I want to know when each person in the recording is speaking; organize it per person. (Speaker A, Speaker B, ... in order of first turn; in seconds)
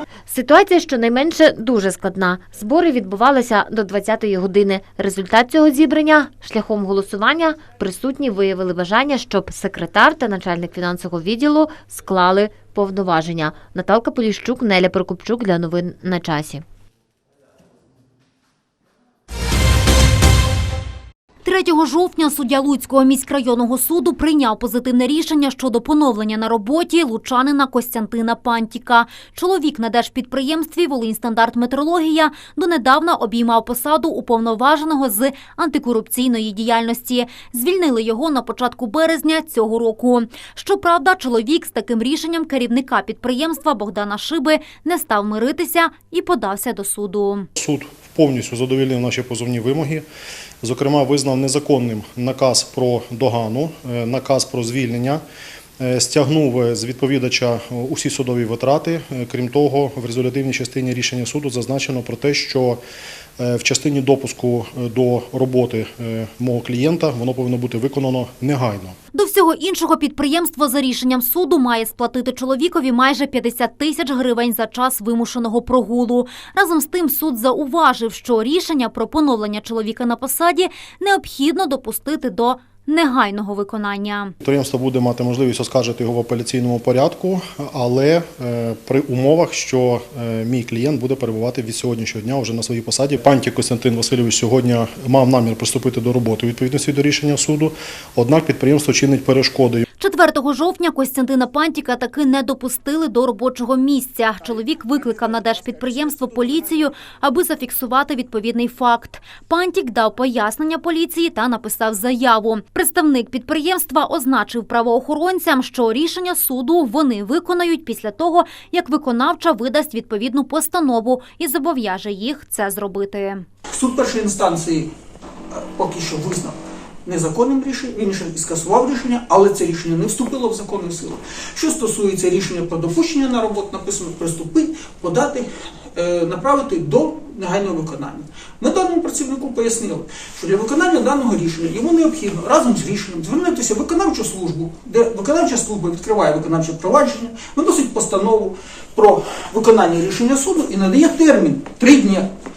Speaker A: 0.3-16.6
Speaker B: 21.4-47.5, 69.1-84.3, 100.0-123.5
Speaker C: 47.6-50.0, 50.6-55.2, 55.8-62.8, 63.4-69.0, 84.4-99.8
Speaker D: 123.7-124.9, 125.5-152.3